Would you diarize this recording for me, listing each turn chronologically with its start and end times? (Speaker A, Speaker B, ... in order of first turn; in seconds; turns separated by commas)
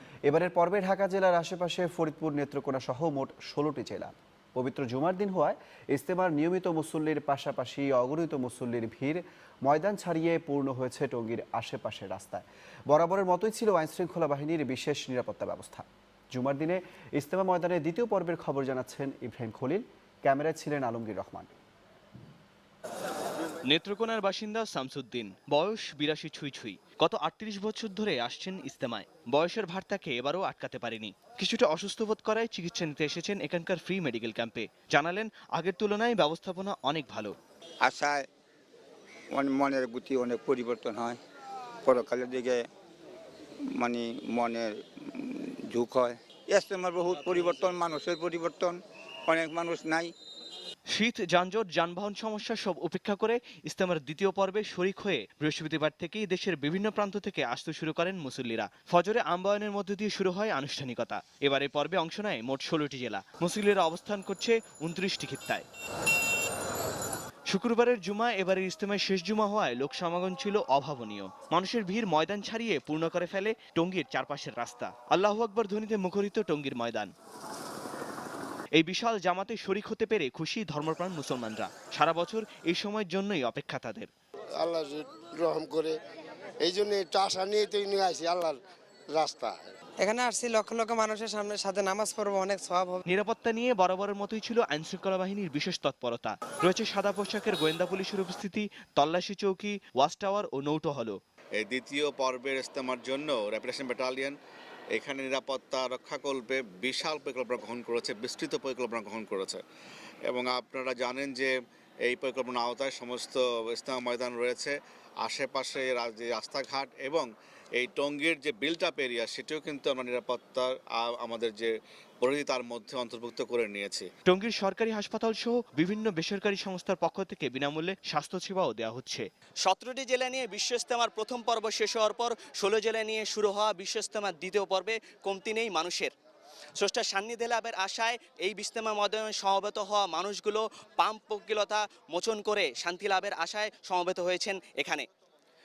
Speaker A: 0.3-21.5, Speaker B: 23.7-37.4, Speaker C: 37.8-38.3, Speaker C: 39.3-41.2, Speaker C: 41.8-42.7, Speaker C: 43.7-50.1, Speaker B: 50.9-65.7, Speaker B: 67.5-77.1, Speaker B: 78.8-84.1, Speaker D: 84.6-85.9, Speaker D: 86.6-88.6, Speaker D: 89.1-89.7, Speaker E: 90.0-93.0, Speaker B: 93.0-101.2, Speaker F: 101.6-104.3, Speaker F: 104.9-109.6, Speaker F: 110.3-111.5, Speaker F: 112.0-124.1, Speaker B: 124.2-129.2, Speaker G: 129.6-136.1, Speaker G: 136.8-145.1